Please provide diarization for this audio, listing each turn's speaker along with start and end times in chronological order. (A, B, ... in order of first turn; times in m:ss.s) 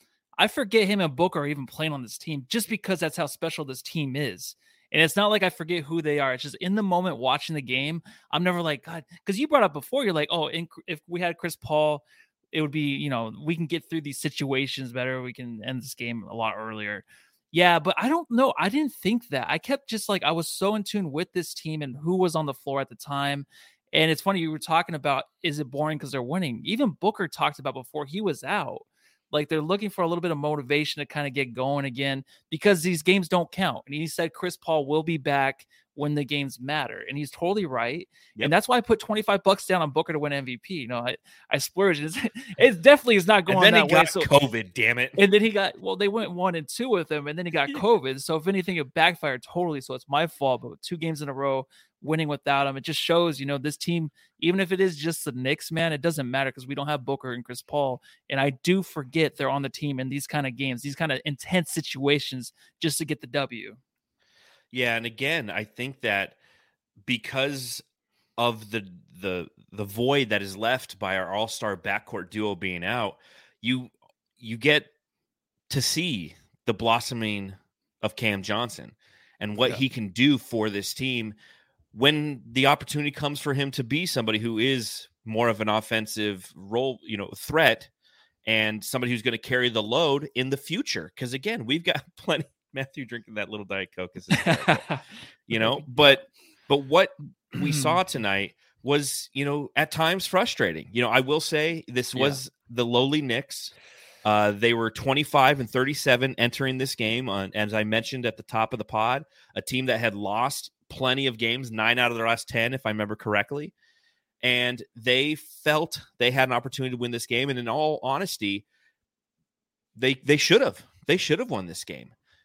0:00.4-0:44.3 A
0:43.5-0:45.2 B
0:45.2-1:03.8 A
1:04.7-1:06.4 B
1:07.0-1:07.8 B
1:08.4-1:14.9 B
1:15.7-1:21.4 B
1:21.9-1:27.9 B
1:28.4-1:34.8 B
1:34.3-1:35.0 A
1:35.5-1:53.7 B
1:35.5-1:35.9 A
1:37.6-1:38.0 A
1:54.4-1:58.6 B
2:00.0-2:02.1 B